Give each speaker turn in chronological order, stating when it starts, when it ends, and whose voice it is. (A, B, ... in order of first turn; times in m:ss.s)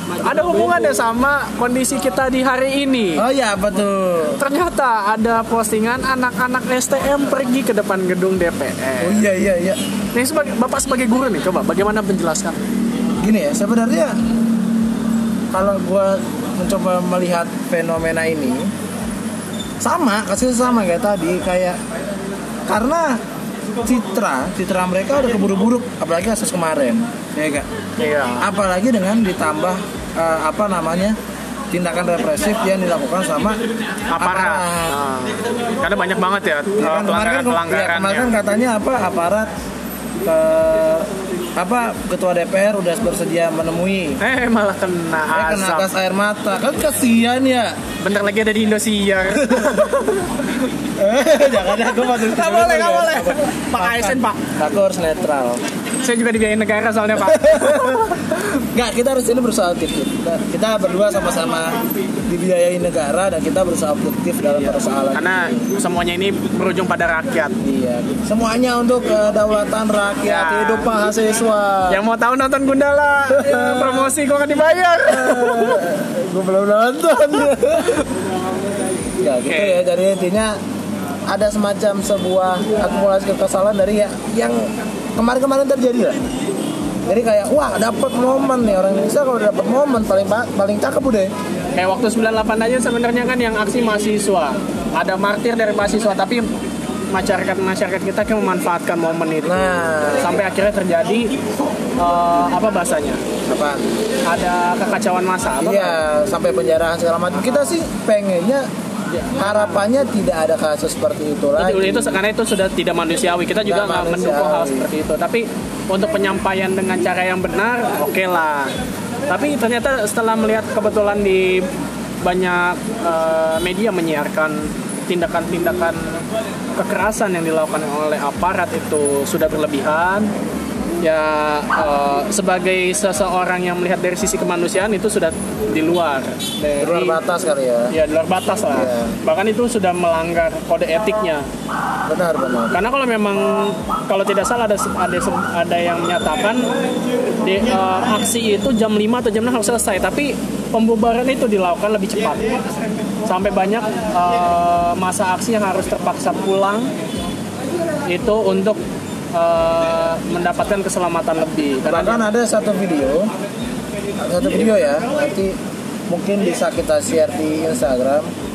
0:00.2-0:03.2 A
0:03.2-0:04.4 B
0:04.4-0:09.2 A
0:09.0-0:09.8 B
0:10.1-0:12.6 A
0:13.2-0:14.2 B
0:15.5-0:18.7 B
0:19.8-0:21.8 B
0:22.7-0:23.2 B
0:23.8-0:27.7 B
0:28.0-0:28.5 A
0:28.4-0:31.2 B
0:31.7-0:33.6 B
0:34.1-0:38.3 A
0:34.2-0:35.0 B
0:36.8-0:39.5 B
0:40.2-0:44.2 B
0:44.2-0:45.9 A
0:45.3-0:47.8 B
0:48.0-0:50.3 A
0:49.4-0:49.9 B
0:51.0-0:55.6 B
0:51.9-0:54.4 A
0:56.0-0:58.1 A
0:57.2-1:05.7 B
1:04.6-1:07.6 A
1:07.6-1:12.0 B
1:10.2-1:10.9 A
1:11.9-1:15.8 A
1:13.3-1:14.1 B
1:15.1-1:18.1 B
1:19.2-1:20.6 B
1:19.4-1:19.9 A
1:21.3-1:26.3 B
1:27.1-1:31.3 B
1:31.8-1:36.5 A
1:37.1-1:39.6 A
1:39.4-1:40.4 B
1:40.2-1:41.3 A
1:42.0-1:43.2 A
1:43.5-1:43.9 B
1:44.3-1:46.0 A
1:45.6-1:48.7 B
1:47.4-1:47.7 A
1:49.1-1:49.8 A
1:49.3-1:52.2 B
1:51.6-1:58.7 A
1:53.6-1:54.9 B
1:59.3-2:01.7 A
2:02.2-2:06.2 A
2:06.8-2:10.3 A
2:11.0-2:17.2 A
2:16.8-2:17.9 B
2:17.9-2:21.5 A
2:18.7-2:19.2 B
2:22.1-2:22.8 B
2:22.7-2:26.7 A
2:27.4-2:32.6 A
2:33.3-2:36.9 A
2:38.1-2:38.8 A
2:39.3-2:42.3 A
2:41.9-2:43.3 B
2:44.2-2:45.6 B
2:46.1-2:48.3 B